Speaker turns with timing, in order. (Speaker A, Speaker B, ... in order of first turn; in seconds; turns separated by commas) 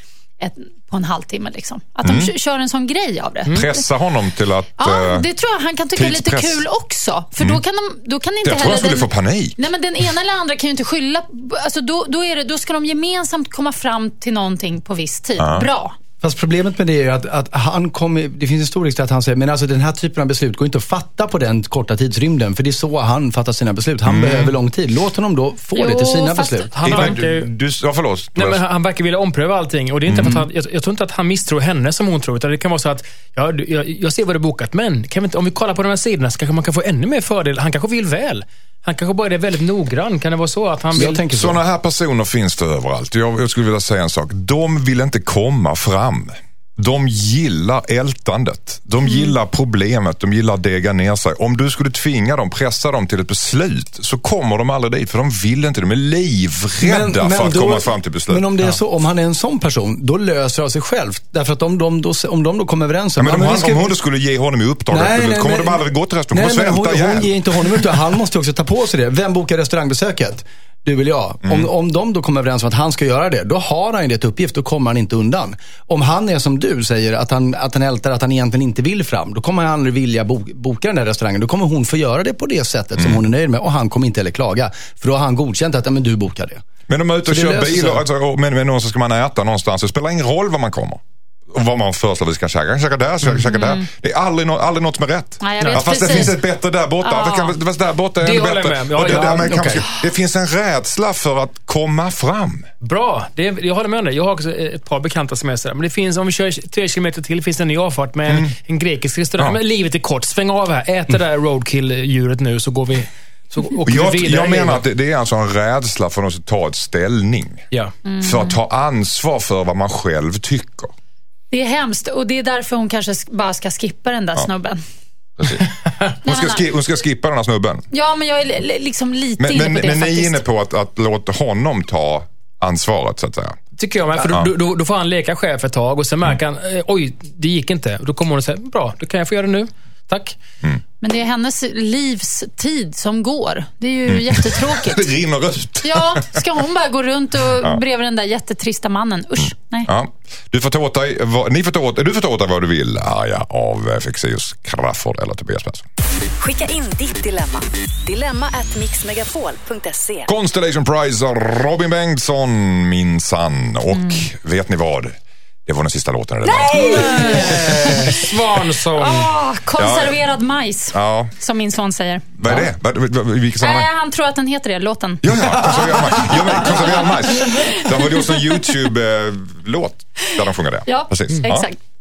Speaker A: 0.4-3.9, Speaker B: 2.0-2.3, Speaker B: 3.5-5.2, Speaker A: 4.8-15.9, Speaker B: 6.0-6.6, Speaker B: 8.4-9.6, Speaker B: 15.4-15.7, Speaker C: 16.2-27.1, Speaker B: 24.1-24.5, Speaker A: 25.7-26.7, Speaker D: 26.7-27.5, Speaker B: 26.8-28.6, Speaker D: 28.4-41.2, Speaker B: 30.1-30.4, Speaker C: 40.9-41.6, Speaker B: 41.3-58.5, Speaker A: 49.0-49.3, Speaker C: 56.8-63.9, Speaker B: 63.2-67.4, Speaker C: 64.9-86.6, Speaker B: 86.9-102.7, Speaker C: 87.3-88.0, Speaker A: 93.4-93.9, Speaker A: 95.4-96.4, Speaker D: 95.6-96.3, Speaker A: 97.0-97.5, Speaker D: 98.2-99.8, Speaker C: 99.0-99.9, Speaker D: 102.8-114.8, Speaker B: 108.3-108.5, Speaker B: 113.8-117.6, Speaker A: 118.0-118.6, Speaker B: 118.2-120.9, Speaker A: 121.5-124.8, Speaker B: 125.4-127.9, Speaker A: 126.2-126.6, Speaker A: 127.9-130.4, Speaker B: 129.4-133.6, Speaker D: 133.8-140.4, Speaker B: 134.2-134.5, Speaker A: 141.0-145.1, Speaker B: 144.1-146.4, Speaker A: 145.8-149.9, Speaker B: 149.4-155.9, Speaker E: 156.4-160.3, Speaker B: 160.3-165.1, Speaker A: 163.9-164.2, Speaker B: 165.7-168.2, Speaker A: 166.4-168.3, Speaker D: 166.7-169.3, Speaker A: 168.9-172.4, Speaker B: 169.8-170.2, Speaker B: 170.9-171.3, Speaker B: 172.4-173.9, Speaker A: 173.6-178.8, Speaker B: 175.2-181.7, Speaker A: 180.9-181.8